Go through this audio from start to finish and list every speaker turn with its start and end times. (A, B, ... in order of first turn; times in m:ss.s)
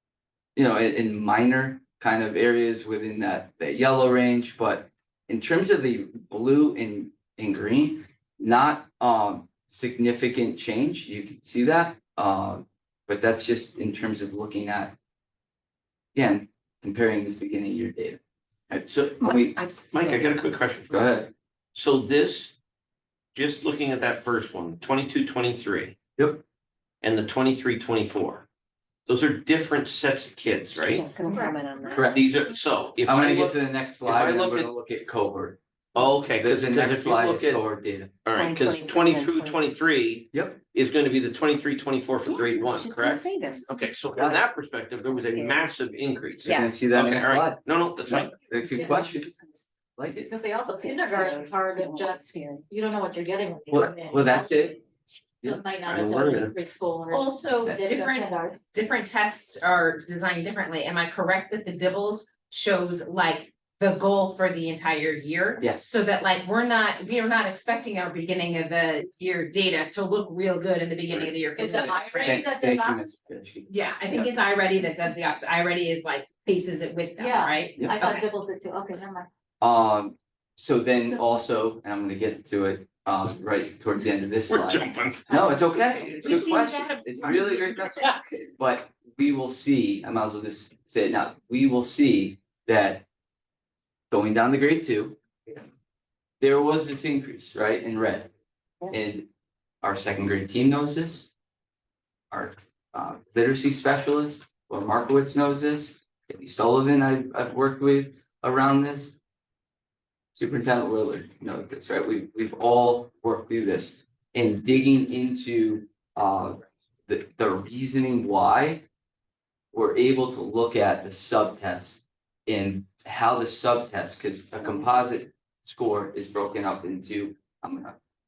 0:00.6-0:15.0 A
0:16.2-0:19.6 A
0:18.9-0:19.2 B
0:19.2-0:20.3 C
0:19.9-0:21.0 B
0:20.9-0:21.3 A
0:21.7-0:22.6 B
0:23.4-0:26.0 B
0:26.2-0:26.4 A
0:27.0-0:28.5 B
0:29.1-0:31.1 B
0:30.9-0:32.2 C
0:31.3-0:31.6 D
0:31.9-0:32.2 A
0:32.1-0:34.7 B
0:33.0-0:38.2 A
0:35.9-0:37.6 B
0:38.2-0:48.3 B
0:38.3-0:39.7 C
0:40.3-0:40.6 A
0:42.3-0:43.8 C
0:45.0-0:45.7 C
0:46.4-0:46.9 C
0:46.5-0:49.3 A
0:48.6-0:49.6 C
0:48.7-0:49.0 D
0:50.0-0:50.3 A
0:50.3-0:54.8 D
0:50.7-0:52.7 C
0:53.7-0:54.8 A
0:55.4-0:58.6 D
0:55.9-0:56.6 B
0:57.1-1:12.4 E
1:05.6-1:05.9 A
1:11.6-1:13.0 D
1:11.9-1:14.9 A
1:13.7-1:18.3 E
1:17.2-1:19.3 D
1:17.8-1:18.1 A
1:19.6-1:33.0 A
1:24.5-1:26.2 B
1:25.3-1:25.8 D
1:26.2-1:27.9 E
1:27.3-1:28.2 B
1:34.1-1:35.6 A
1:36.4-1:38.3 A
1:38.9-1:39.3 A
1:39.8-1:41.3 A
1:42.3-1:49.2 A
1:50.3-1:58.8 A
1:59.7-2:08.0 A